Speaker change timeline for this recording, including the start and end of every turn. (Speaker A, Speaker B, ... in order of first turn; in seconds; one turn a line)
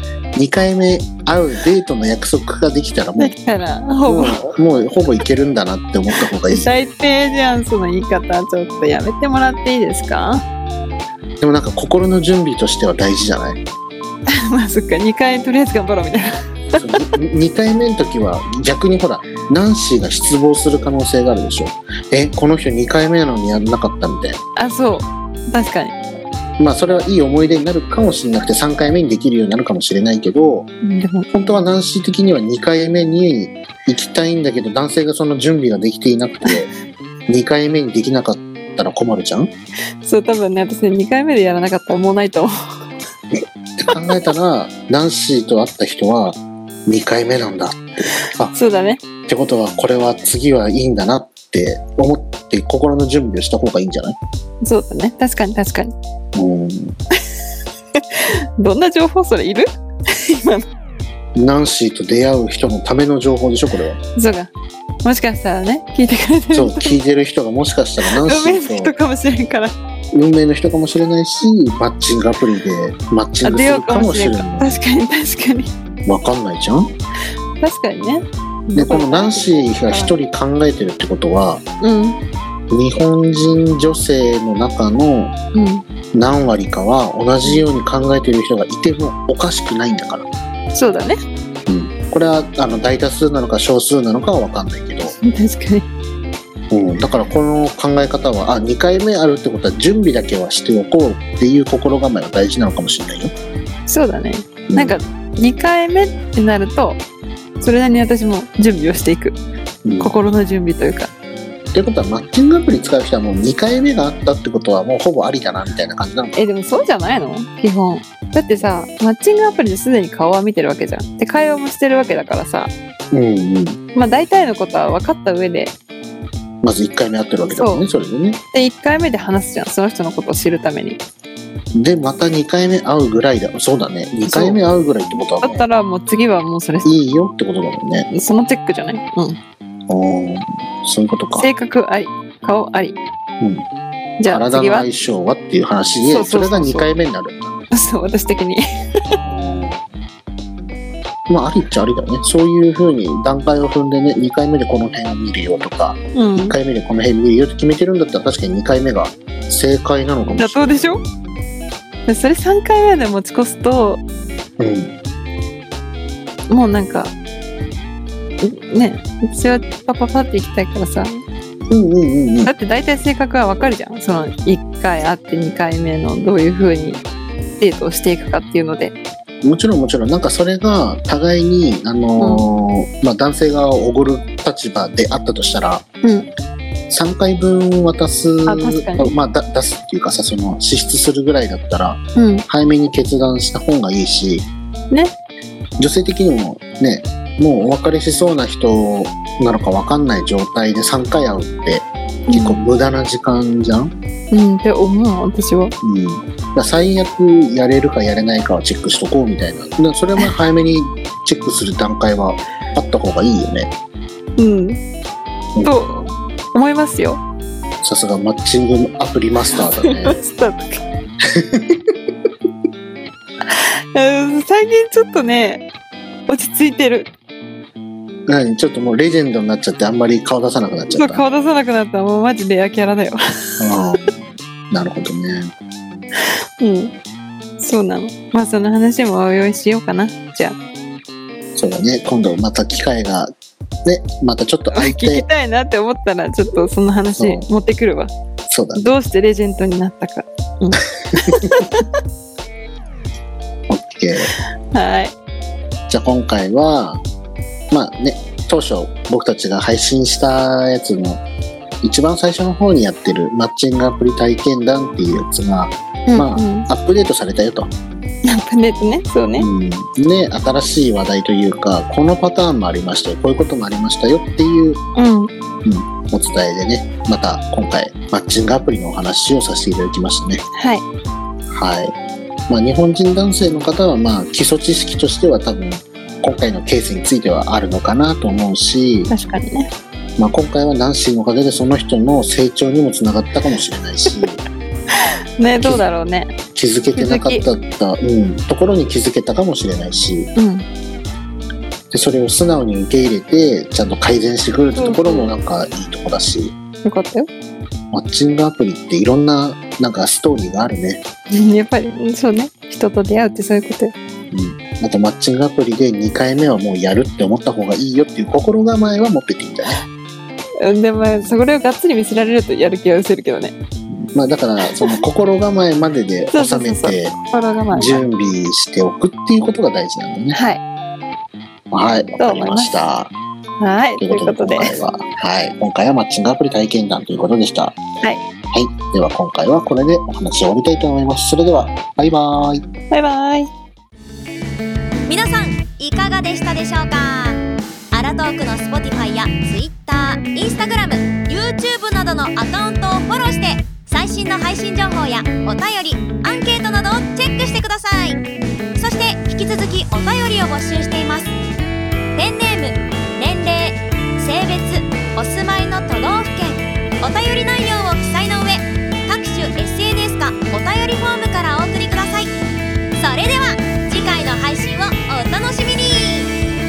Speaker A: 0.3-3.3
Speaker B: 3.2-4.6
Speaker A: 4.1-6.7
Speaker B: 6.1-10.4
Speaker A: 11.4-13.6
Speaker B: 14.5-16.3
Speaker A: 16.8-24.4
Speaker B: 24.6-25.9
Speaker A: 26.6-30.7
Speaker B: 30.8-31.3
Speaker A: 31.3-36.7
Speaker A: 37.3-39.5
Speaker B: 40.0-42.5
Speaker A: 43.8-48.5
Speaker B: 48.5-49.0
Speaker A: 49.3-54.2
Speaker B: 54.6-55.9
Speaker A: 56.4-57.0
Speaker B: 58.0-60.7
Speaker A: 61.4-64.0
Speaker B: 64.2-64.5
Speaker B: 65.0-67.0
Speaker A: 66.5-68.9
Speaker B: 68.0-69.7
Speaker A: 70.1-74.7
Speaker B: 73.4-75.7
Speaker A: 76.1-76.9
Speaker B: 77.6-80.2
Speaker A: 78.8-81.6
Speaker B: 81.8-82.2
Speaker A: 82.7-85.3
Speaker B: 85.5-85.8
Speaker A: 86.1-90.3
Speaker B: 90.8-91.2
Speaker A: 91.7-95.2
Speaker B: 95.2-95.9
Speaker A: 96.7-103.3
Speaker B: 103.9-107.0
Speaker A: 104.7-105.0
Speaker B: 107.6-109.4
Speaker A: 109.8-110.1
Speaker B: 110.0-111.1
Speaker A: 111.7-116.5
Speaker B: 116.4-122.7
Speaker A: 123.1-123.8
Speaker B: 124.0-125.7
Speaker A: 126.6-128.4
Speaker B: 127.5-127.8
Speaker B: 128.5-131.0
Speaker A: 131.8-135.7
Speaker B: 134.3-134.6
Speaker B: 135.4-136.9
Speaker A: 136.8-138.1
Speaker B: 138.1-139.4
Speaker A: 139.9-141.5
Speaker B: 141.3-143.0
Speaker B: 144.2-144.9
Speaker A: 144.3-147.5
Speaker B: 146.0-146.9
Speaker B: 147.7-149.2
Speaker A: 149.1-149.8
Speaker A: 151.3-160.8
Speaker B: 156.2-156.6
Speaker B: 160.4-161.0
Speaker B: 162.1-164.0
Speaker A: 164.6-164.9
Speaker B: 166.5-167.1
Speaker B: 168.4-171.2
Speaker A: 171.7-172.5
Speaker B: 172.4-177.0
Speaker B: 177.6-178.9
Speaker A: 179.4-185.8
Speaker B: 182.2-182.5
Speaker B: 186.0-186.3
Speaker A: 186.9-194.5
Speaker B: 188.5-189.1
Speaker B: 192.2-192.4
Speaker A: 195.8-203.9
Speaker B: 202.3-202.6
Speaker B: 204.3-205.8
Speaker A: 205.8-213.7
Speaker B: 214.4-214.8
Speaker B: 215.6-217.2
Speaker A: 217.8-220.2
Speaker B: 219.7-220.8
Speaker A: 221.3-221.9
Speaker B: 223.5-225.7
Speaker B: 226.3-227.1
Speaker A: 228.3-231.2
Speaker B: 230.9-233.7
Speaker A: 233.6-235.5
Speaker B: 236.6-236.9
Speaker B: 237.6-240.6
Speaker A: 241.6-243.3
Speaker A: 243.8-245.3
Speaker B: 244.7-248.1
Speaker A: 247.2-247.5
Speaker A: 248.5-248.9
Speaker B: 248.8-251.9
Speaker A: 253.7-254.3
Speaker B: 254.7-255.1
Speaker A: 255.9-257.0
Speaker A: 257.7-261.2
Speaker A: 261.8-267.7
Speaker B: 266.1-266.7
Speaker B: 268.2-269.5
Speaker A: 269.4-274.8
Speaker B: 275.0-275.3
Speaker A: 275.6-280.4
Speaker B: 280.6-280.8
Speaker A: 281.5-281.9
Speaker A: 282.5-289.1
Speaker B: 289.1-289.7
Speaker A: 290.2-294.4
Speaker B: 294.9-296.4
Speaker A: 296.5-300.3
Speaker B: 296.9-297.4
Speaker B: 300.4-300.7
Speaker A: 301.9-306.5
Speaker B: 304.7-305.3
Speaker B: 306.9-307.3
Speaker A: 307.9-311.0
Speaker B: 311.3-313.9
Speaker A: 314.3-319.8
Speaker B: 320.6-323.6
Speaker A: 324.0-327.2
Speaker B: 324.7-325.0
Speaker B: 326.3-328.0
Speaker A: 327.7-330.4
Speaker B: 330.3-330.6
Speaker A: 331.7-333.1
Speaker B: 332.2-332.8
Speaker B: 333.6-334.8
Speaker A: 334.0-337.8
Speaker A: 338.5-342.7
Speaker B: 342.9-343.5
Speaker C: 345.1-347.4
Speaker C: 347.9-358.2
Speaker C: 358.8-361.3
Speaker C: 362.1-372.3
Speaker C: 373.0-376.3